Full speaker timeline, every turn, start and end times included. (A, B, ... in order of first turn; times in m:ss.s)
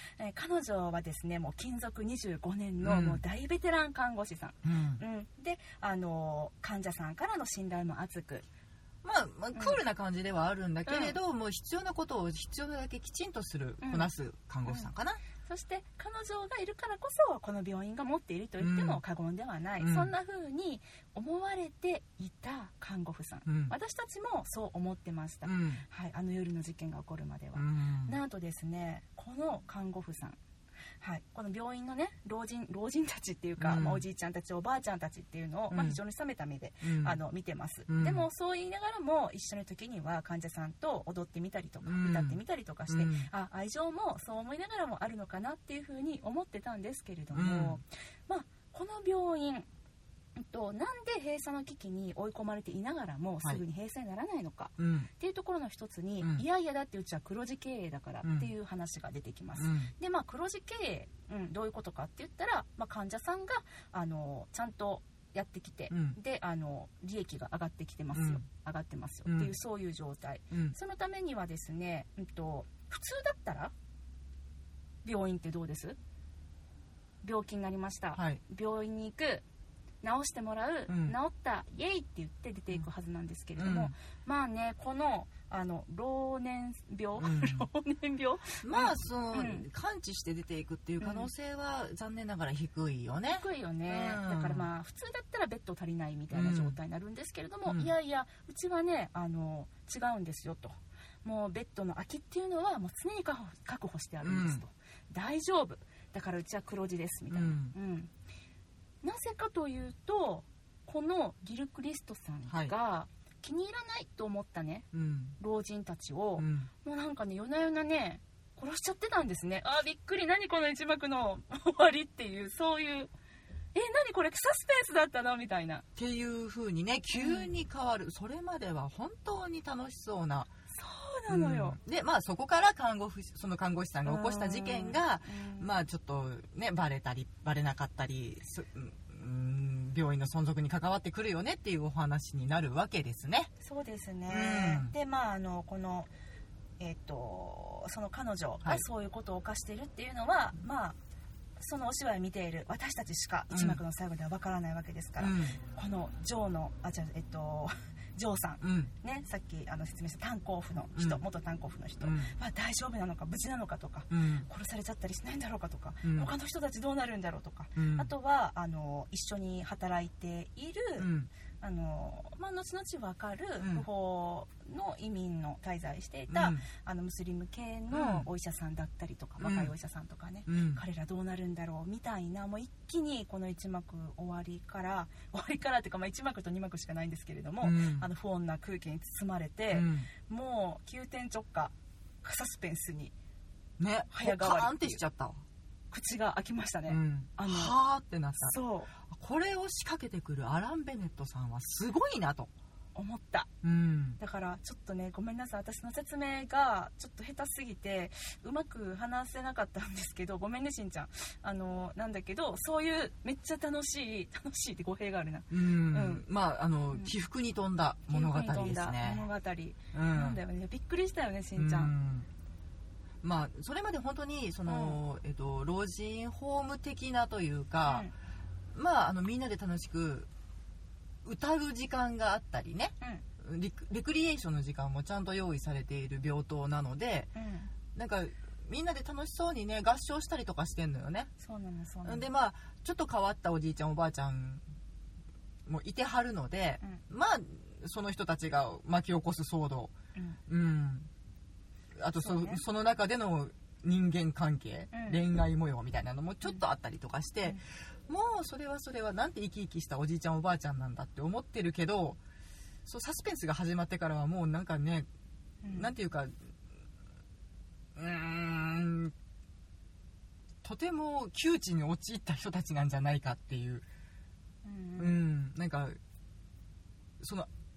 0:00.2-0:08.5 A
0:02.8-0:03.2 B
0:04.6-0:05.0 B
0:09.0-0:15.2 B
0:10.9-0:11.2 A
0:13.8-0:14.1 A
0:15.4-0:30.4 A
0:18.6-0:19.0 B
0:19.8-0:20.1 B
0:23.5-0:23.7 B
0:25.4-0:25.8 B
0:27.6-0:28.2 B
0:31.0-0:49.7 A
0:33.6-0:34.0 B
0:35.7-0:36.0 B
0:36.8-0:37.2 B
0:37.9-0:38.2 B
0:41.8-0:42.4 B
0:42.9-0:43.3 B
0:47.3-0:47.8 B
0:50.4-1:13.7 A
0:54.8-0:55.1 B
0:58.2-0:58.5 B
0:59.6-0:59.9 B
1:05.9-1:06.2 B
1:08.1-1:08.4 B
1:09.3-1:09.5 B
1:15.0-1:16.0 A
1:17.2-1:19.4 A
1:18.2-1:18.4 B
1:20.0-1:29.7 A
1:20.9-1:21.2 B
1:23.6-1:23.9 B
1:27.2-1:27.7 B
1:28.6-1:34.7 B
1:31.0-1:31.3 A
1:33.3-1:48.1 A
1:36.3-1:36.8 B
1:37.7-1:37.9 B
1:44.2-1:44.6 B
1:47.3-1:47.8 B
1:49.0-1:54.9 A
1:52.5-1:52.8 B
1:54.9-1:55.4 B
1:55.4-2:03.1 A
1:56.4-1:56.7 B
2:03.7-2:05.8 A
2:06.0-2:10.5 B
2:07.2-2:07.5 A
2:10.7-2:11.8 A
2:11.3-2:23.5 B
2:14.0-2:15.7 A
2:23.6-2:26.1 A
2:24.3-2:24.9 B
2:26.8-2:31.0 A
2:31.6-2:51.1 A
2:33.5-2:33.8 B
2:35.2-2:35.6 B
2:38.6-2:38.9 B
2:42.0-2:42.3 B
2:44.1-2:44.5 B
2:46.0-2:46.3 B
2:47.8-2:48.1 B
2:51.0-2:51.3 B
2:51.6-3:11.7 A
2:53.6-2:53.8 B
2:56.3-2:56.6 B
2:57.9-2:58.3 B
2:59.4-2:59.7 B
3:00.5-3:00.8 B
3:07.6-3:08.1 B
3:09.7-3:10.1 B
3:12.2-3:13.1 A
3:13.8-3:15.4 B
3:14.1-3:15.0 A
3:15.9-3:17.7 A
3:16.9-3:22.5 B
3:18.4-3:18.9 A
3:23.0-3:23.5 A
3:23.6-3:24.2 B
3:24.2-3:36.2 A
3:35.5-3:39.3 B
3:38.1-3:41.9 A
3:39.9-3:40.4 B
3:41.6-3:42.3 B
3:43.2-3:48.1 B
3:44.7-3:45.0 A
3:47.9-3:48.1 A
3:48.7-3:50.3 B
3:51.2-3:57.3 B
3:57.4-3:57.7 A
3:58.0-4:01.3 B
4:01.4-4:02.3 A
4:02.0-4:04.6 B
4:05.7-4:09.9 B
4:10.5-4:11.1 B
4:12.0-4:22.2 B
4:12.2-4:12.6 A
4:14.9-4:15.2 A
4:22.9-4:25.1 B
4:25.6-4:25.9 A
4:25.7-4:26.6 B
4:28.0-4:29.1 B
4:30.6-4:33.8 B
4:34.6-4:35.2 A
4:35.0-4:36.0 B
4:37.2-4:37.5 B